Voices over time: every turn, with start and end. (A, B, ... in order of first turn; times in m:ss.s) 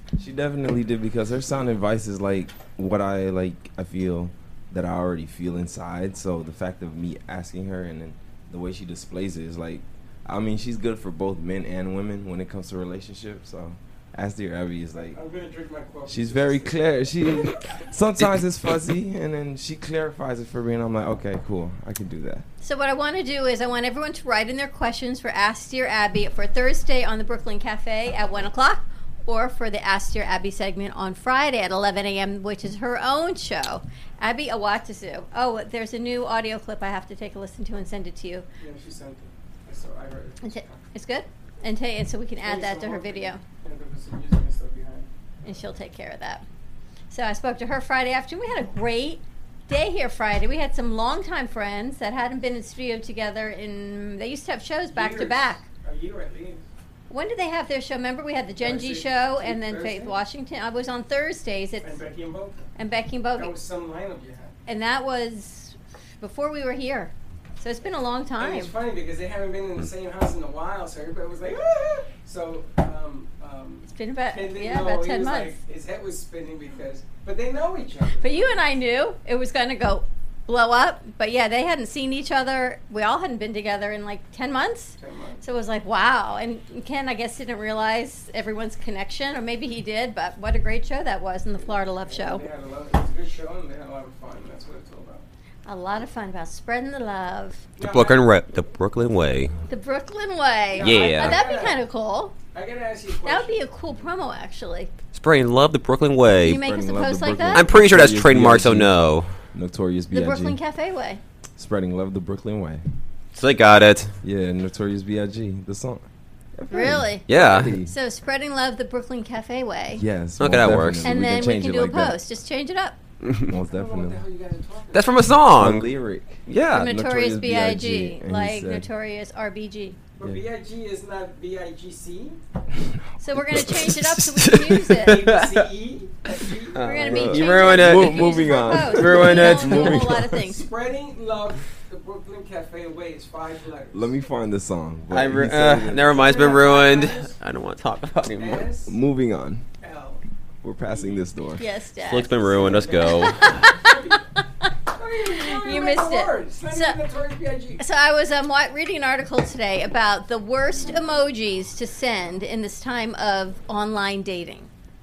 0:00.2-0:15.2 A
0:15.1-0:16.8 B
0:16.1-0:22.4 A
0:22.6-0:38.4 C
0:38.6-0:40.8 B
0:40.4-0:43.4 C
0:42.4-0:45.1 B
0:45.4-0:46.4 C
0:47.1-0:55.6 C
0:54.9-0:56.6 B
0:57.1-1:02.0 C
0:58.6-1:00.2 B
1:01.8-1:02.7 B
1:02.8-1:03.5 C
1:03.4-1:04.5 B
1:04.6-1:08.7 C
1:08.4-1:18.5 B
1:13.9-1:15.6 C
1:18.2-1:32.4 C
1:25.0-1:25.4 B
1:31.6-1:35.2 B
1:35.6-1:37.6 C
1:37.8-1:38.2 B
1:37.8-1:39.5 D
1:39.7-1:42.4 C
1:40.7-1:41.8 B
1:40.8-1:41.4 D
1:42.5-1:43.6 B
1:43.2-1:44.9 C
1:45.1-1:46.6 D
1:46.4-1:47.7 C
1:46.5-1:48.9 A
1:47.5-1:49.3 D
1:49.5-1:50.6 A
1:50.1-1:51.2 C
1:51.6-1:52.8 A
1:53.3-1:54.2 D
1:54.2-1:56.0 A
1:56.6-1:57.9 A
1:56.7-1:57.2 C
1:57.3-1:57.7 D
1:57.8-2:00.0 C
2:00.0-2:02.2 A
2:00.4-2:01.1 D
2:01.0-2:03.0 C
2:03.2-2:03.5 D
2:03.4-2:04.2 A
2:03.7-2:05.1 B
2:04.9-2:05.9 D
2:05.5-2:08.9 A
2:06.4-2:06.9 D
2:06.7-2:10.0 C
2:10.2-2:12.4 B
2:12.7-2:13.9 A
2:13.2-2:15.3 C
2:13.6-2:15.6 D
2:15.0-2:17.0 B
2:16.7-2:20.0 D
2:16.8-2:20.6 C
2:17.0-2:20.5 A
2:20.4-2:24.1 B
2:23.9-2:26.4 A
2:25.1-2:28.6 D
2:26.1-2:27.4 B
2:28.4-2:28.9 B
2:28.8-2:29.6 A
2:29.8-2:30.2 B
2:30.6-2:31.6 A
2:30.9-2:31.2 B
2:31.6-2:33.9 C
2:32.0-2:33.8 D
2:32.4-2:34.3 B
2:34.9-2:37.8 B
2:35.2-2:37.0 C
2:37.8-2:44.7 C